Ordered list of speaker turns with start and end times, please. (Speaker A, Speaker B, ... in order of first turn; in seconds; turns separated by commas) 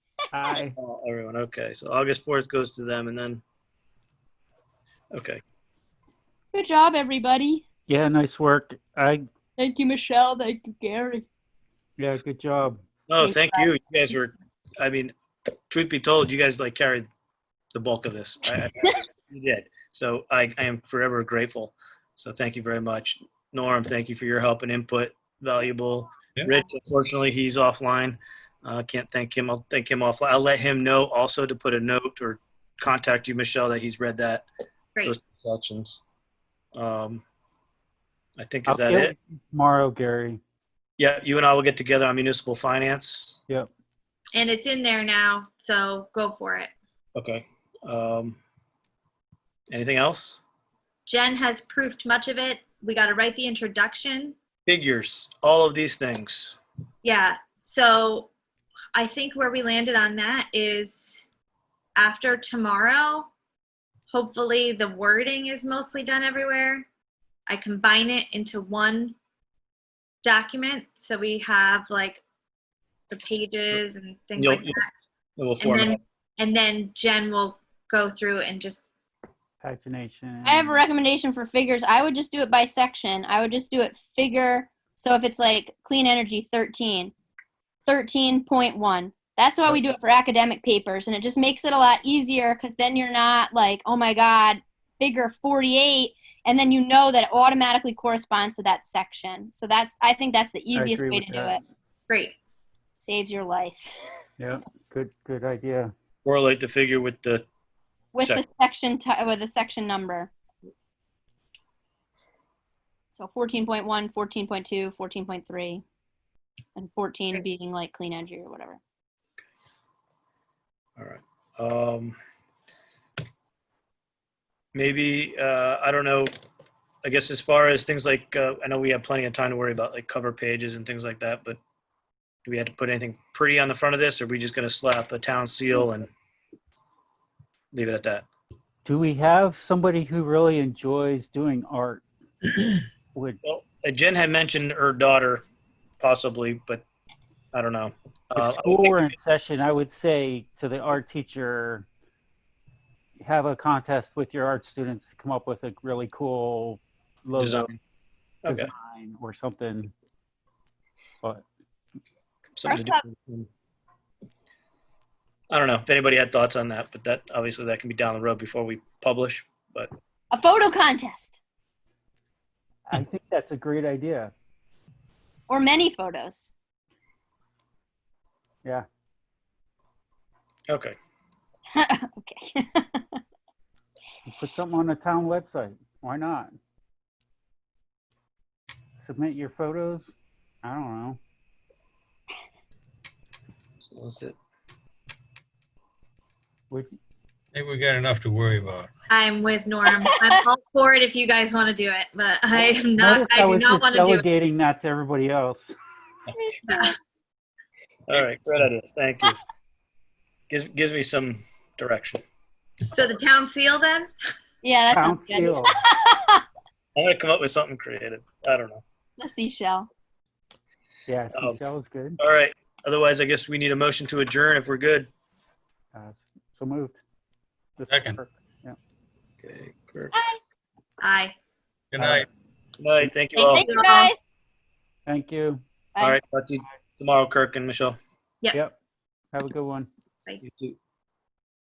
Speaker A: 0.3-0.8, Speaker B: 0.8-3.4, Speaker B: 5.1-5.4, Speaker C: 6.5-7.6, Speaker A: 7.9-9.2, Speaker C: 9.6-11.3, Speaker A: 12.0-12.8, Speaker B: 13.1-15.1, Speaker C: 13.2-13.8, Speaker B: 15.7-17.1, Speaker B: 17.7-34.5, Speaker B: 35.0-36.0, Speaker B: 36.8-37.2, Speaker B: 38.4-39.1, Speaker A: 38.7-40.4, Speaker B: 41.0-43.3, Speaker D: 44.4-46.7, Speaker B: 47.1-48.4, Speaker B: 49.7-50.4, Speaker D: 51.1-54.4, Speaker B: 54.7-56.5, Speaker D: 57.0-58.3, Speaker D: 59.0-61.3, Speaker D: 62.0-63.3, Speaker D: 64.1-66.9, Speaker D: 67.5-69.2, Speaker D: 70.2-72.2, Speaker D: 73.1-74.9, Speaker B: 74.4-74.8, Speaker B: 75.4-76.0, Speaker D: 75.6-78.8, Speaker A: 79.6-80.8, Speaker C: 80.5-87.1, Speaker C: 87.9-101.6, Speaker A: 100.8-101.6, Speaker D: 102.1-102.4, Speaker C: 103.0-103.9, Speaker A: 104.4-105.9, Speaker B: 106.2-107.5, Speaker C: 108.1-110.3, Speaker B: 108.2-108.5, Speaker C: 113.2-115.8, Speaker C: 116.8-118.8, Speaker B: 121.0-122.2, Speaker B: 124.7-126.3, Speaker B: 127.0-131.6, Speaker B: 132.4-136.1, Speaker B: 137.7-138.3, Speaker A: 138.8-142.1, Speaker A: 143.1-143.4, Speaker B: 143.4-145.5, Speaker B: 146.0-146.8, Speaker B: 147.5-149.1, Speaker A: 148.3-151.9, Speaker A: 153.2-157.8, Speaker B: 157.4-157.7, Speaker B: 158.4-158.7, Speaker A: 158.5-159.9, Speaker B: 162.6-163.5, Speaker C: 162.7-163.0, Speaker B: 165.5-169.9, Speaker C: 170.3-171.4, Speaker A: 172.9-174.3, Speaker C: 175.5-176.5, Speaker B: 180.7-180.9, Speaker C: 181.8-183.2, Speaker A: 184.3-186.6, Speaker A: 189.0-191.2, Speaker B: 193.8-194.4, Speaker E: 197.5-198.9, Speaker D: 199.1-204.2, Speaker A: 203.0-205.7, Speaker C: 206.4-206.9, Speaker D: 206.7-206.9, Speaker B: 208.1-209.4, Speaker B: 210.5-212.2, Speaker D: 212.9-214.1, Speaker C: 214.6-216.4, Speaker A: 214.9-215.8, Speaker B: 217.0-218.8, Speaker C: 219.2-219.9, Speaker A: 221.1-222.2, Speaker B: 221.3-221.6, Speaker B: 222.2-225.1, Speaker A: 225.9-227.0, Speaker A: 227.8-228.8, Speaker E: 227.9-228.2, Speaker B: 229.4-230.2, Speaker D: 231.0-231.3, Speaker E: 231.9-232.3, Speaker A: 232.0-232.2, Speaker B: 232.8-233.7, Speaker C: 233.4-234.2, Speaker D: 233.6-234.1, Speaker A: 235.1-235.6, Speaker B: 236.0-238.0, Speaker A: 239.3-239.9, Speaker B: 240.4-240.8